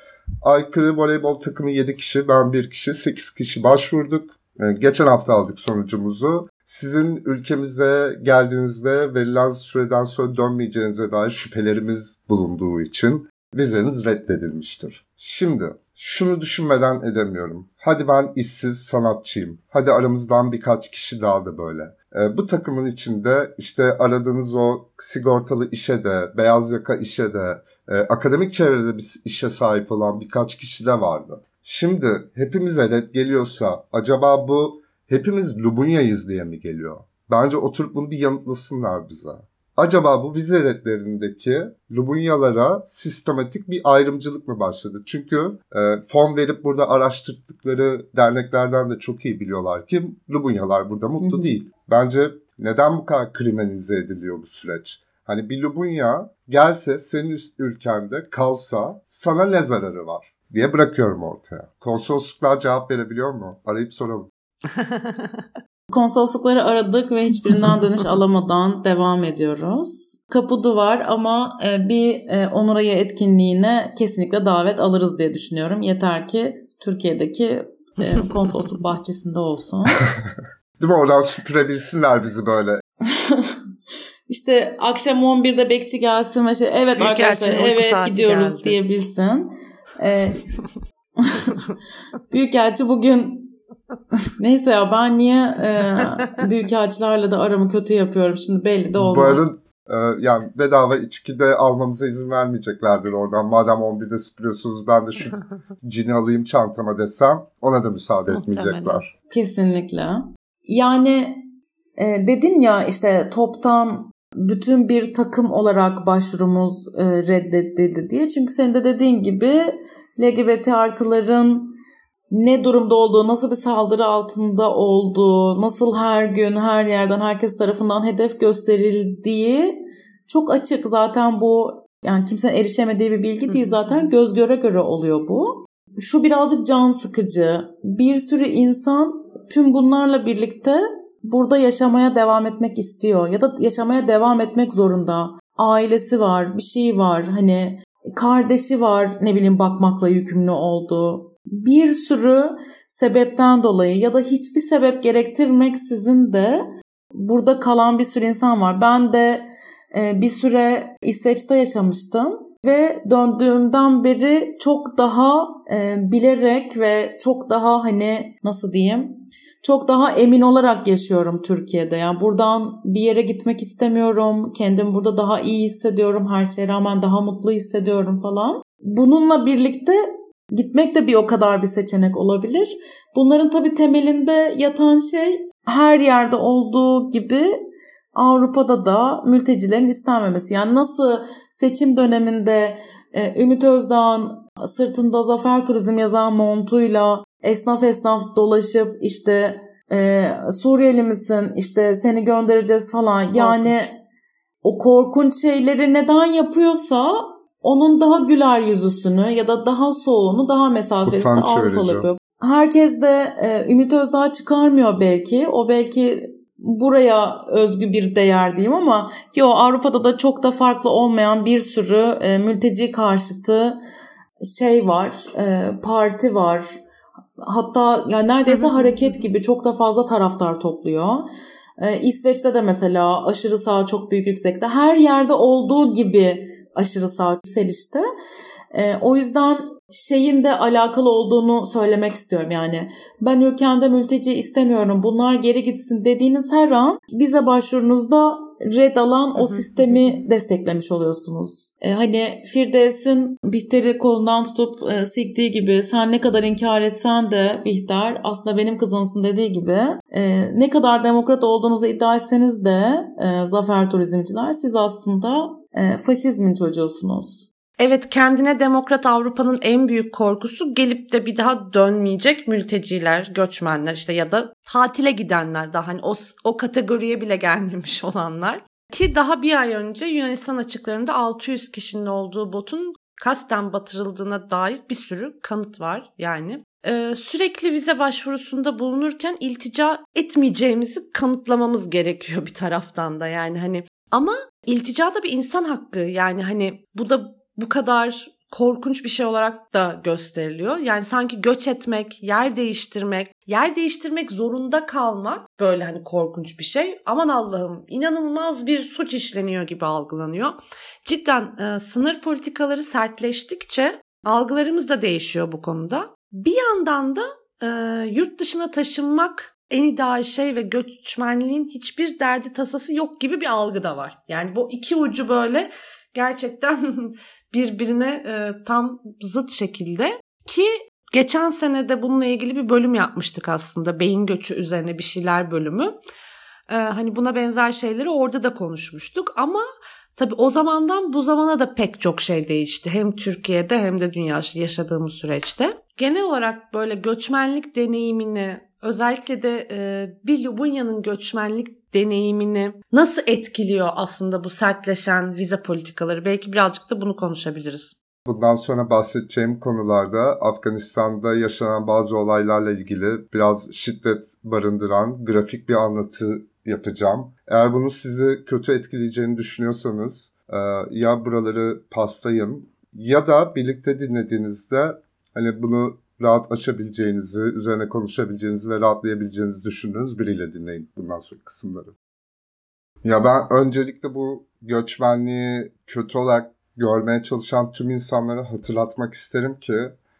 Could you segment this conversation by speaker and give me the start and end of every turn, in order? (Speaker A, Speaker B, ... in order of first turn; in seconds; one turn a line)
Speaker A: 0.4-64.3
Speaker B: 51.2-51.6
Speaker C: 64.7-65.5
Speaker B: 65.9-80.0
Speaker A: 80.1-82.8
Speaker B: 83.2-83.6
Speaker B: 84.3-90.5
Speaker C: 87.0-88.8
Speaker B: 91.2-91.6
Speaker B: 92.3-93.5
Speaker B: 94.4-99.5
Speaker A: 99.0-109.1
Speaker C: 108.3-109.0
Speaker B: 109.3-111.5
Speaker B: 112.0-121.8
Speaker B: 122.3-156.6
Speaker C: 133.5-134.1
Speaker B: 157.2-180.0
Speaker B: 180.6-187.5
Speaker B: 188.1-204.0
Speaker C: 203.3-203.9
Speaker B: 204.6-223.8
Speaker A: 211.1-212.1
Speaker B: 224.5-226.8
Speaker B: 227.4-231.2
Speaker C: 228.5-229.1
Speaker B: 231.8-238.0
Speaker B: 238.7-267.5
Speaker C: 249.4-250.0
Speaker C: 267.8-335.9
Speaker C: 336.7-339.6
Speaker C: 340.1-357.9
Speaker A: 358.3-381.9
Speaker A: 383.0-389.9